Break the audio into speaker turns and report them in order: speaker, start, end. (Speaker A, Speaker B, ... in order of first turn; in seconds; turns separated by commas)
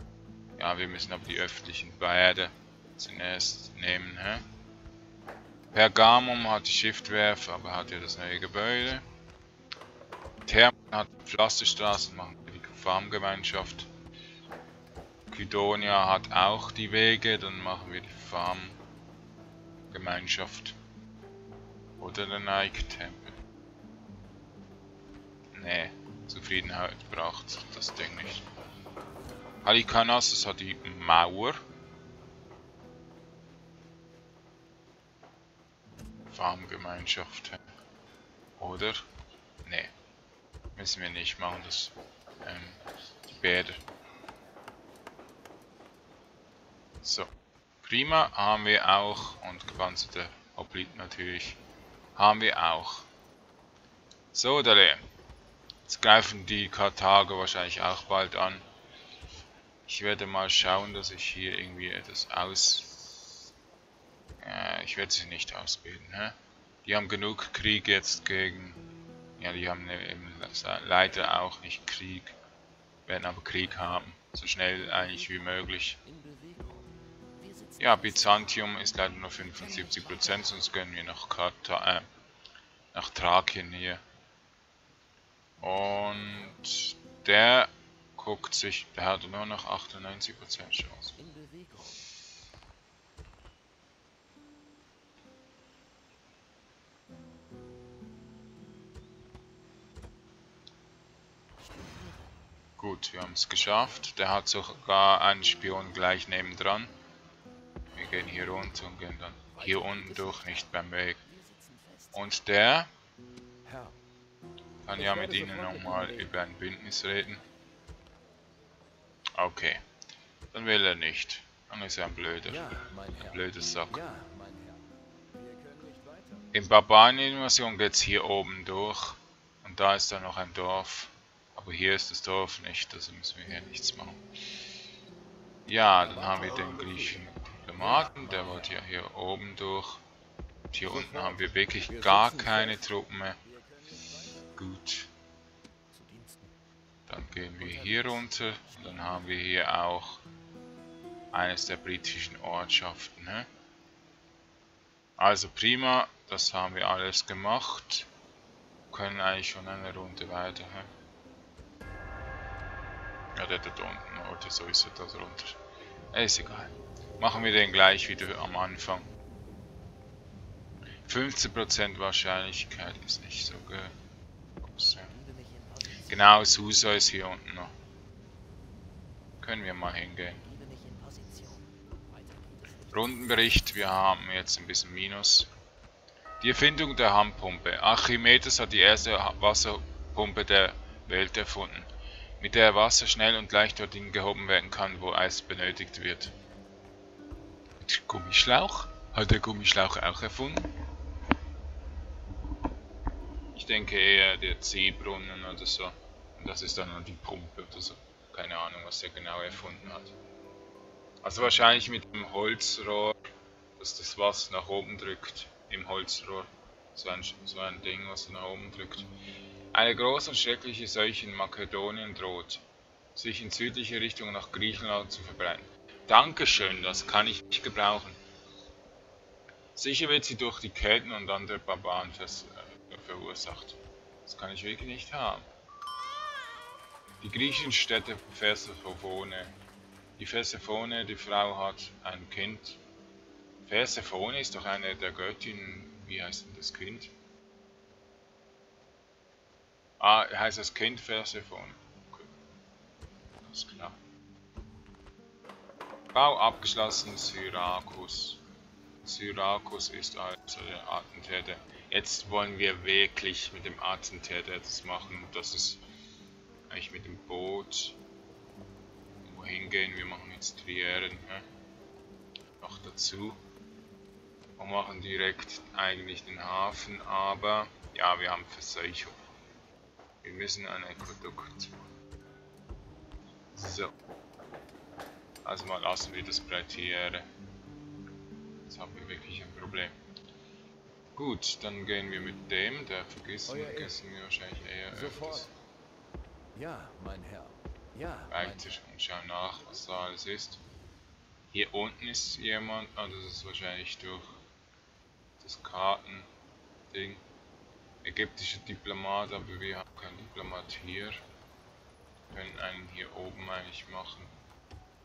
Speaker A: 0.6-4.4, Speaker A: 5.7-9.1, Speaker A: 10.5-13.9, Speaker A: 15.3-18.8, Speaker A: 19.9-20.8, Speaker A: 22.0-23.4, Speaker A: 25.5-28.5, Speaker A: 29.6-31.6, Speaker A: 36.3-37.6, Speaker A: 38.6-39.0, Speaker A: 39.6-39.9, Speaker A: 40.8-43.8, Speaker A: 47.0-47.3, Speaker A: 47.8-51.6, Speaker A: 52.2-53.1, Speaker A: 54.3-55.0, Speaker A: 55.9-58.6, Speaker A: 59.9-63.4, Speaker A: 64.4-68.8, Speaker A: 69.4-72.3, Speaker A: 73.1-76.0, Speaker B: 75.0-75.5, Speaker B: 76.0-78.6, Speaker A: 77.8-82.1, Speaker B: 79.6-80.5, Speaker A: 82.9-84.0, Speaker A: 85.6-91.2, Speaker B: 91.2-92.0, Speaker A: 102.8-106.9, Speaker A: 108.0-111.2, Speaker B: 109.5-112.3, Speaker A: 112.1-112.9, Speaker B: 113.7-114.0, Speaker A: 114.8-117.4, Speaker B: 114.9-116.3, Speaker A: 119.4-119.8, Speaker A: 120.5-124.0, Speaker B: 122.5-126.5, Speaker A: 126.5-134.2, Speaker A: 135.7-140.0, Speaker B: 136.0-137.2, Speaker B: 137.8-138.7, Speaker A: 140.7-143.4, Speaker B: 140.9-142.9, Speaker B: 143.4-144.5, Speaker A: 144.6-145.1, Speaker B: 145.9-146.5, Speaker A: 147.1-150.2, Speaker B: 147.6-149.3, Speaker A: 151.3-153.5, Speaker A: 155.2-158.1, Speaker A: 158.9-160.9, Speaker A: 163.4-165.6, Speaker A: 166.1-169.1, Speaker A: 171.1-173.9, Speaker A: 174.6-175.1, Speaker B: 175.1-176.2, Speaker A: 176.1-177.7, Speaker A: 179.4-180.4, Speaker B: 180.4-183.6, Speaker A: 182.9-185.5, Speaker A: 186.4-191.9, Speaker A: 192.4-196.3, Speaker A: 197.8-200.7, Speaker A: 203.5-210.1, Speaker A: 211.2-219.1, Speaker A: 219.7-222.6, Speaker A: 223.2-228.2, Speaker A: 229.8-235.5, Speaker A: 237.2-239.5, Speaker A: 240.2-242.8, Speaker A: 243.6-247.1, Speaker A: 250.0-252.3, Speaker A: 253.4-254.0, Speaker A: 256.1-258.4, Speaker A: 259.0-265.8, Speaker A: 266.7-268.0, Speaker A: 269.2-271.4, Speaker A: 272.6-273.4, Speaker A: 274.6-279.2, Speaker A: 280.2-281.7, Speaker A: 283.5-283.9, Speaker A: 285.4-287.3, Speaker A: 288.7-289.9, Speaker A: 291.2-295.5, Speaker B: 293.5-293.9, Speaker B: 294.9-295.5, Speaker B: 296.6-298.7, Speaker A: 298.3-300.6, Speaker A: 301.5-304.4, Speaker A: 305.4-306.3, Speaker A: 306.9-307.2, Speaker A: 308.0-311.2, Speaker A: 312.3-314.3